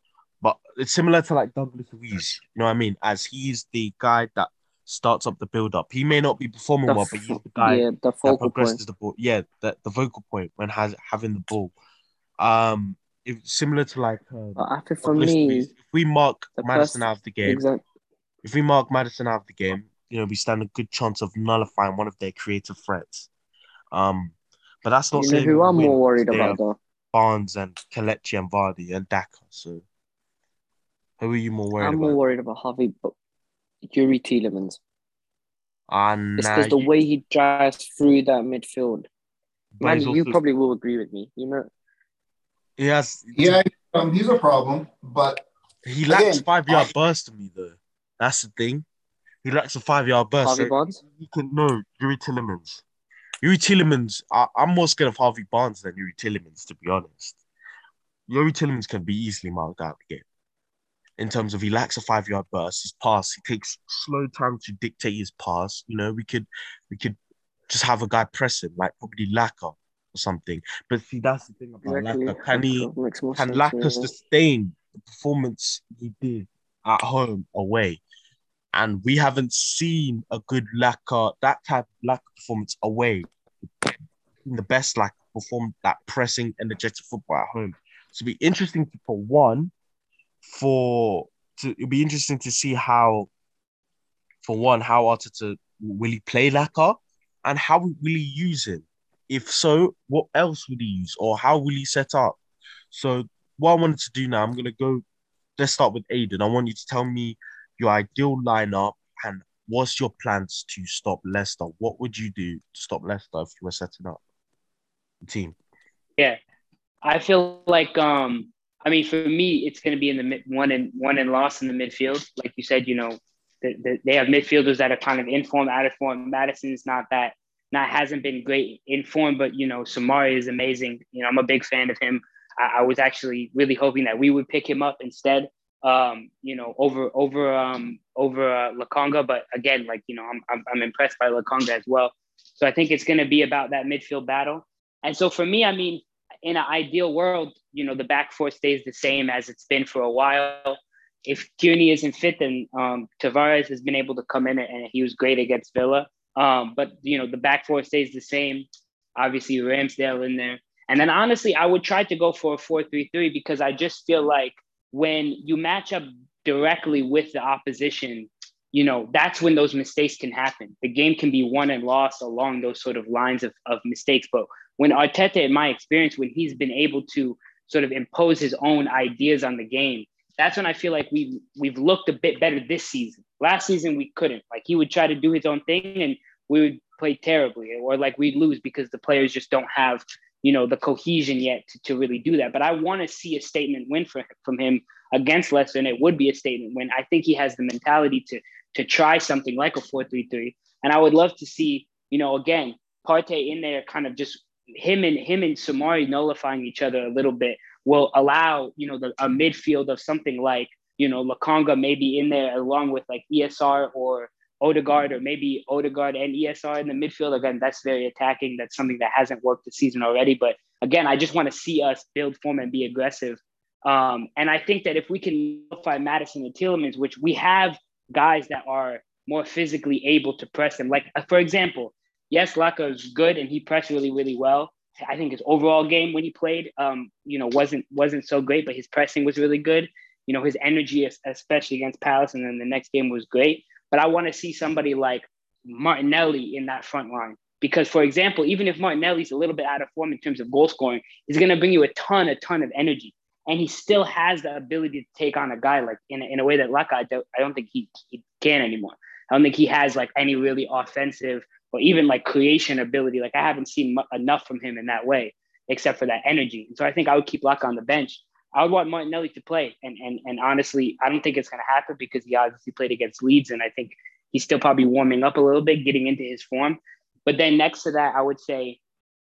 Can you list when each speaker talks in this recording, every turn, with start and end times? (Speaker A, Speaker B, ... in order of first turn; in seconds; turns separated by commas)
Speaker A: 0.4-11.8, Speaker B: 6.9-8.8, Speaker A: 12.4-17.6, Speaker B: 14.6-15.7, Speaker B: 16.6-17.8, Speaker A: 18.4-23.3, Speaker A: 23.9-26.6, Speaker B: 25.1-26.8, Speaker A: 27.1-29.9, Speaker A: 31.2-32.2, Speaker B: 31.8-33.1, Speaker B: 33.9-34.8, Speaker A: 35.9-36.9, Speaker B: 36.4-39.1, Speaker A: 39.8-40.4, Speaker B: 39.8-41.7, Speaker A: 42.8-43.6, Speaker C: 43.4-45.5, Speaker A: 45.9-48.9, Speaker C: 46.1-46.9, Speaker A: 49.4-52.8, Speaker B: 50.4-51.0, Speaker A: 53.4-57.4, Speaker A: 58.3-60.2, Speaker A: 61.2-67.2, Speaker A: 67.7-78.0, Speaker B: 71.8-74.1, Speaker A: 78.7-83.3, Speaker A: 84.5-89.7, Speaker A: 90.4-93.3, Speaker A: 94.4-102.4, Speaker A: 102.9-105.0, Speaker A: 105.6-114.2, Speaker A: 115.2-115.6, Speaker D: 117.0-278.8